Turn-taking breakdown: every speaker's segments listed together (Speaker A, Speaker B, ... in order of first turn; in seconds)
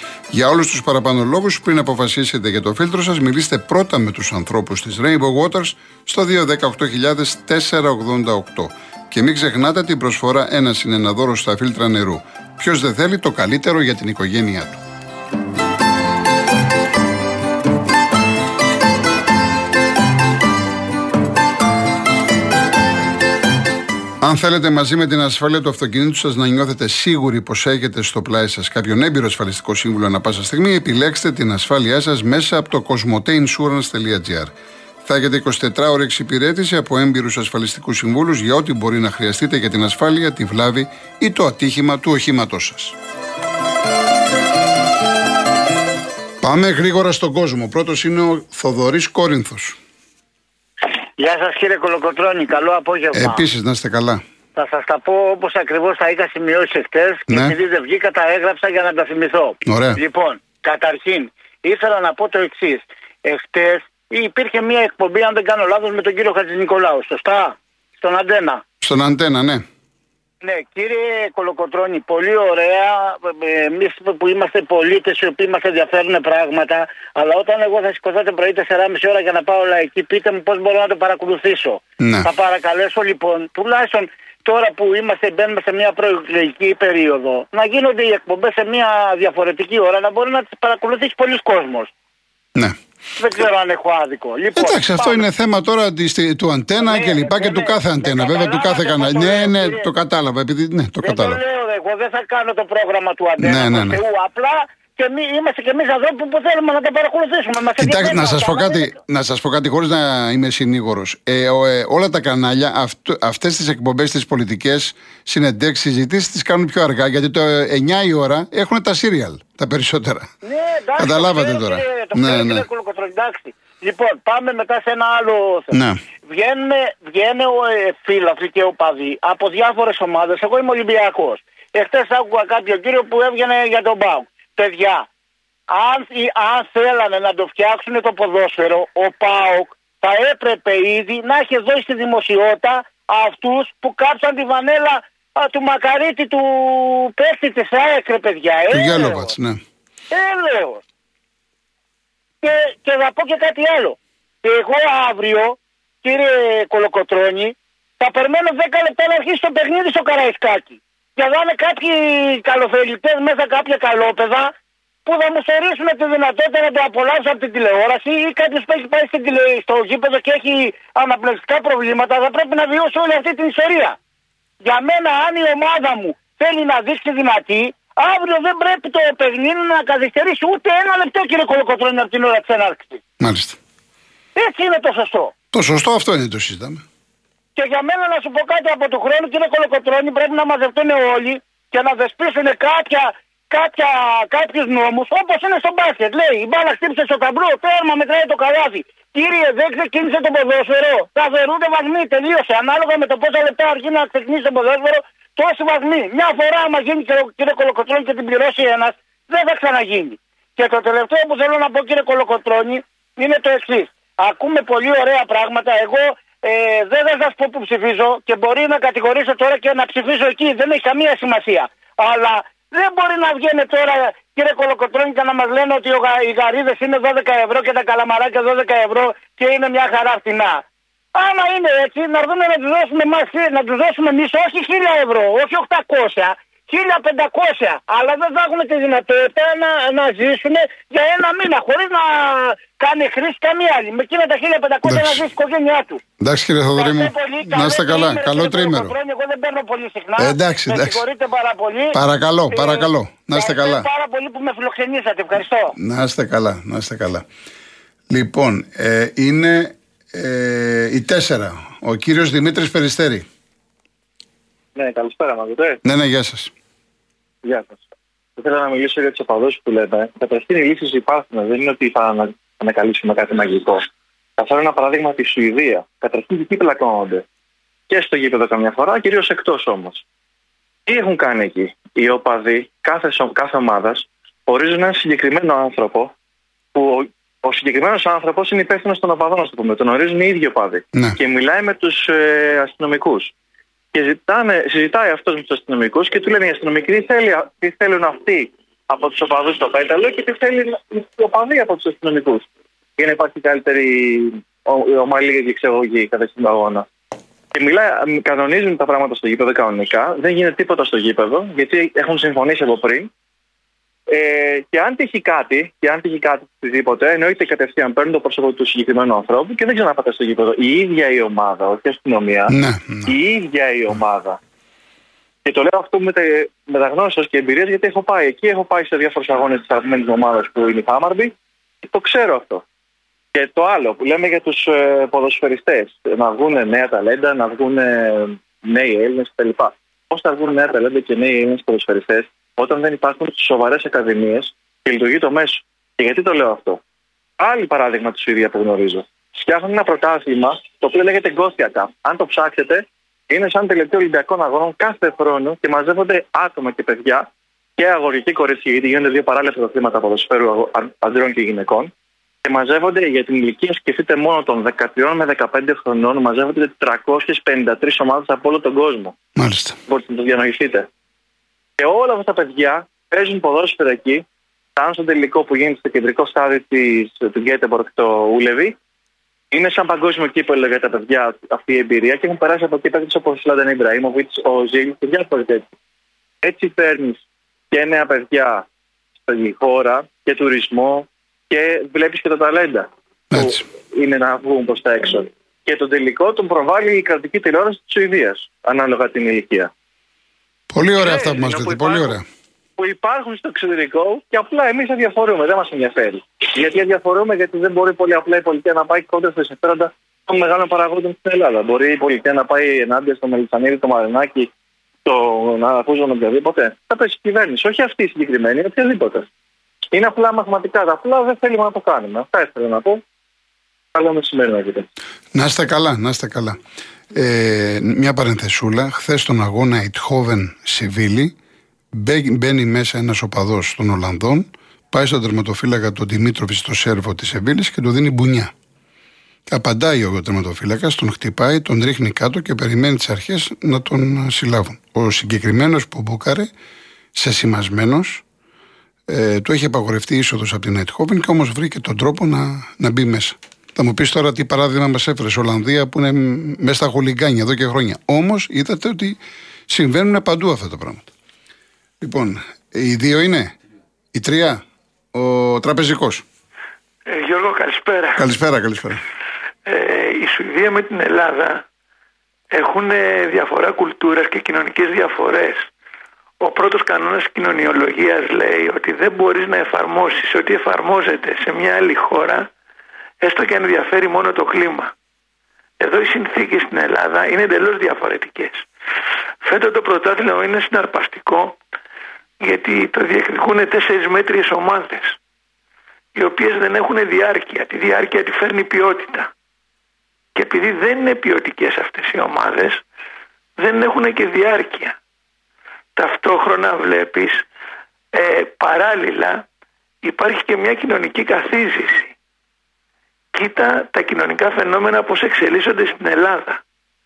Speaker A: 0.3-14.8, 24.2-34.5, 35.1-43.0, 46.4-49.8, 53.1-54.2, 57.3-57.6, 59.7-60.0, 68.8-69.6, 82.0-82.3, 94.5-101.4, 103.4-104.0, 107.8-120.3, 121.0-122.7, 125.7-126.0, 148.7-149.6, 183.2-183.6, 185.5-186.8, 244.8-245.2, 246.2-248.9, 250.2-251.1, 251.9-253.9, 255.8-257.2, 258.1-263.2, 265.8-266.5, 322.5-323.1, 369.4-369.8, 393.3-393.6, 400.7-402.2, 425.3-426.6, 427.1-431.3, 431.9-438.5, 439.5-446.5, 447.2-448.2, 449.1-461.1, 462.0-463.6, 464.1-464.6, 465.1-466.2, 468.2-469.0
Speaker B: 51.2-53.4, 54.5-68.6, 70.4-91.9, 93.2-95.3, 96.8-99.9, 101.0-109.0, 120.4-125.8, 126.3-135.1, 135.7-149.3, 150.1-150.8, 152.4-164.5, 165.1-174.0, 174.6-183.0, 184.3-185.3, 187.6-230.6, 231.1-246.0, 246.8-252.0, 252.5-255.8
Speaker C: 264.8-265.8, 267.4-273.9, 274.4-277.2, 277.9-280.0, 280.9-286.1, 286.7-293.3, 293.9-302.4, 303.0-306.9, 307.5-313.1, 314.1-324.4, 325.4-332.6, 333.3-346.8, 347.4-357.2, 357.8-361.9, 362.4-369.1, 369.9-370.9, 371.8-374.2, 374.8-378.8, 379.5-385.6, 386.4-388.6, 389.2-399.7, 401.0-402.2, 402.8-414.5, 415.1-419.2, 419.9-423.0, 423.9-424.9
Speaker D: 467.1-468.2, 469.7-471.6, 472.5-475.7, 476.4-482.5, 483.2-484.9, 485.8-488.7, 489.4-491.6, 492.4-495.2, 496.1-499.3, 500.3-502.8, 503.6-505.0, 505.9-507.5, 508.1-509.4, 510.0-512.1, 513.3-516.6